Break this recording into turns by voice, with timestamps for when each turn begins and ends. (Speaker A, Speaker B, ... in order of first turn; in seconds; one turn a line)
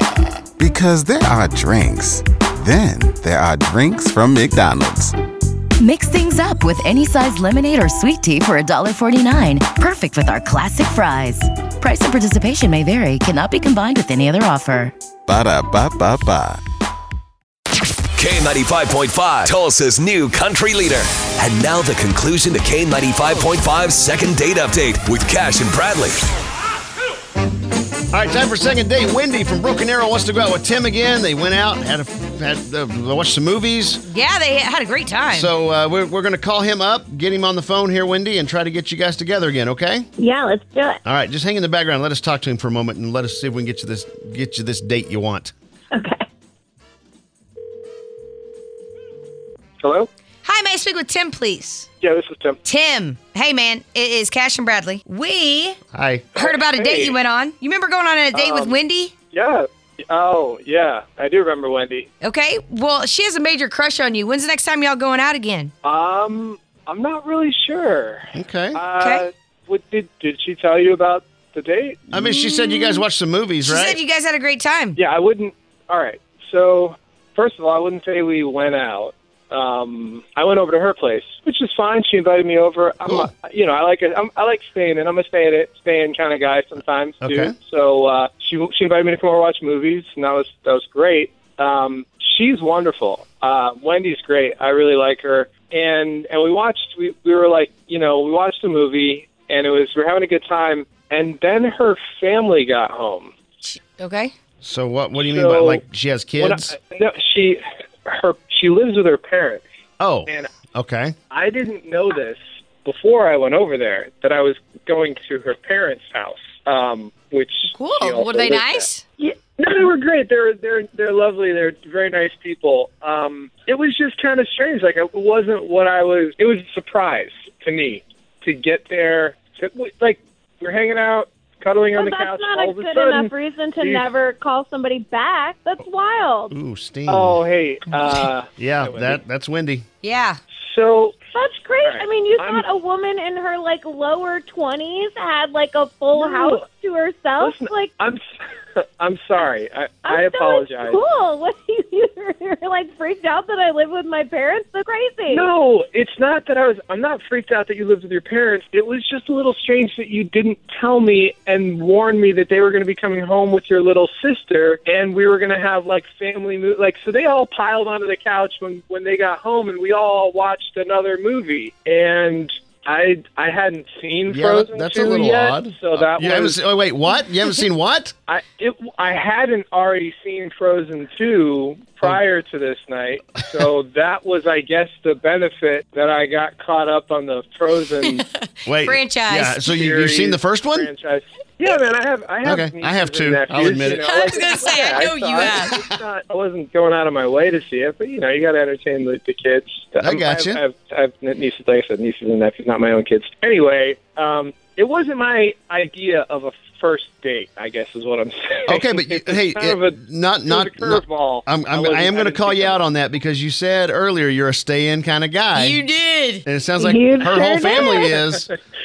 Speaker A: 0.6-5.1
Speaker B: 5.8-14.9
Speaker A: 15.3-16.6
Speaker C: 18.2-26.2
Speaker D: 28.1-34.0
Speaker E: 34.1-35.5
Speaker D: 35.3-40.1
Speaker F: 40.2-41.0
Speaker D: 41.0-45.5
Speaker F: 45.9-46.3
Speaker G: 49.8-50.1
Speaker E: 50.4-51.9
Speaker G: 52.0-52.6
Speaker E: 52.6-55.8
Speaker D: 55.9-56.3
Speaker G: 56.4-57.2
Speaker E: 56.4-59.1
Speaker G: 58.3-58.8
Speaker G: 59.3-62.1
Speaker E: 62.2-65.7
Speaker G: 65.8-72.0
Speaker D: 68.3-68.8
Speaker E: 69.0-69.3
Speaker D: 72.1-74.0
Speaker E: 72.2-73.0
Speaker E: 73.7-75.0
Speaker G: 75.0-103.3
Speaker D: 83.1-83.3
Speaker D: 87.2-87.5
Speaker E: 103.6-104.3
Speaker D: 104.6-106.7
Speaker G: 105.2-105.8
Speaker G: 106.4-109.6
Speaker D: 110.0-111.2
Speaker G: 110.3-110.5
Speaker G: 111.3-134.1
Speaker E: 117.8-119.0
Speaker F: 132.0-136.5
Speaker D: 136.5-137.4
Speaker G: 137.1-139.2
Speaker D: 138.6-139.8
Speaker E: 140.0-140.4
Speaker G: 140.6-142.8
Speaker F: 141.3-147.9
Speaker G: 146.1-146.7
Speaker G: 147.4-148.2
Speaker G: 148.8-151.0
Speaker F: 150.1-155.5
Speaker G: 155.3-176.6
Speaker D: 174.3-178.1
Speaker G: 178.3-188.2
Speaker E: 188.0-189.6
Speaker D: 188.7-190.9
Speaker G: 189.6-212.8
Speaker D: 192.4-194.1
Speaker E: 193.8-195.8
Speaker D: 195.6-195.9
Speaker D: 200.0-200.6
Speaker D: 208.7-215.8
Speaker E: 215.6-216.4
Speaker D: 216.4-218.4
Speaker F: 216.8-218.2
Speaker G: 217.3-218.6